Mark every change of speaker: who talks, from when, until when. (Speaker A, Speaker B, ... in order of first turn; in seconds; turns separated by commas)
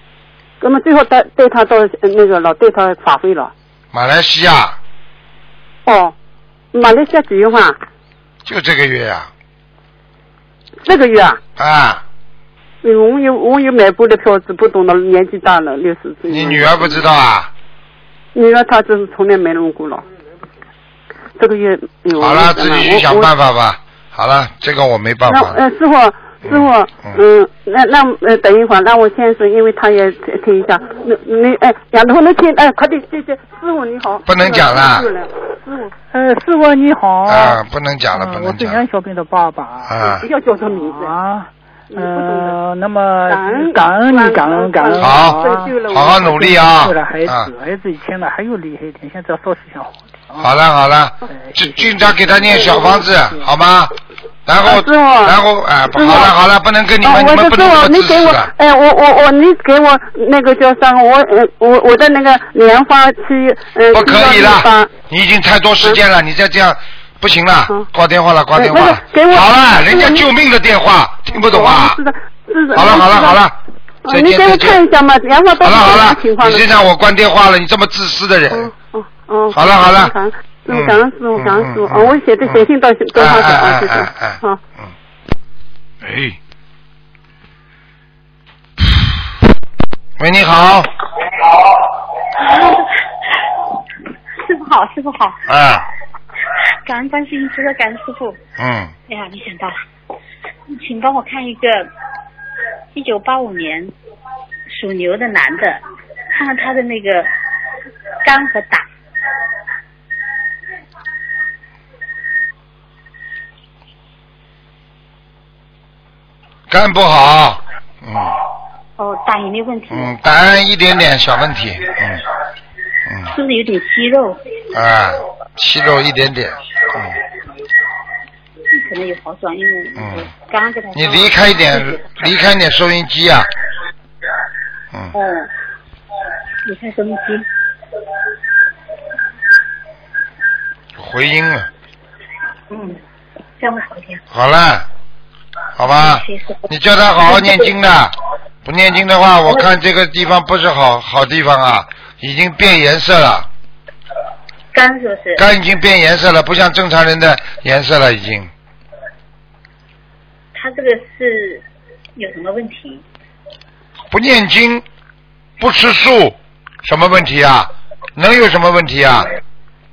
Speaker A: 0.6-3.5, Speaker B: 3.9-4.8, Speaker A: 5.8-6.1, Speaker A: 6.7-7.8, Speaker B: 8.4-9.3, Speaker A: 10.8-11.4, Speaker B: 11.6-12.0, Speaker A: 12.8-17.0, Speaker B: 16.3-17.5, Speaker A: 18.3-20.0, Speaker A: 21.4-23.3, Speaker B: 22.2-25.6, Speaker A: 25.3-35.9, Speaker B: 26.4-27.2, Speaker B: 34.2-35.1, Speaker C: 36.1-37.6, Speaker B: 37.3-38.8, Speaker C: 38.1-40.1, Speaker B: 39.9-40.2, Speaker A: 40.0-41.1, Speaker C: 40.6-50.5, Speaker A: 41.9-42.6, Speaker A: 43.3-46.5, Speaker B: 45.0-47.5, Speaker B: 50.4-53.9, Speaker C: 51.3-53.5, Speaker A: 52.5-53.0, Speaker B: 54.5-58.5, Speaker A: 54.6-55.4, Speaker A: 55.9-56.3, Speaker A: 57.0-64.9, Speaker B: 63.9-72.0, Speaker A: 68.5-70.2, Speaker A: 71.3-73.4, Speaker B: 72.7-73.5, Speaker A: 74.0-76.7, Speaker B: 74.1-74.8, Speaker B: 75.6-78.7, Speaker A: 78.5-84.6, Speaker B: 79.5-80.1, Speaker B: 80.7-84.9, Speaker B: 86.0-86.4, Speaker B: 88.8-89.1, Speaker B: 90.2-90.9, Speaker D: 92.4-92.9, Speaker D: 94.4-95.5, Speaker B: 95.5-95.9, Speaker D: 96.8-98.4, Speaker B: 98.6-98.9, Speaker D: 99.1-99.8, Speaker D: 100.7-101.9, Speaker D: 102.9-103.9, Speaker D: 104.7-105.8, Speaker D: 106.3-107.3, Speaker D: 108.2-108.9, Speaker B: 116.7-118.3, Speaker D: 119.0-120.2, Speaker B: 119.9-122.2, Speaker D: 123.2-124.4, Speaker B: 124.7-127.2, Speaker D: 128.7-132.3, Speaker B: 130.0-130.3, Speaker B: 130.9-133.5, Speaker D: 135.1-135.5, Speaker D: 136.6-137.5, Speaker B: 140.9-141.7, Speaker D: 142.7-143.0, Speaker D: 143.6-144.2, Speaker B: 144.3-144.9, Speaker B: 145.8-153.5, Speaker D: 145.9-146.7, Speaker D: 147.2-147.7, Speaker D: 154.7-155.5, Speaker B: 155.4-158.5, Speaker D: 160.5-161.6, Speaker D: 162.2-163.0, Speaker B: 164.1-164.8, Speaker B: 165.6-169.3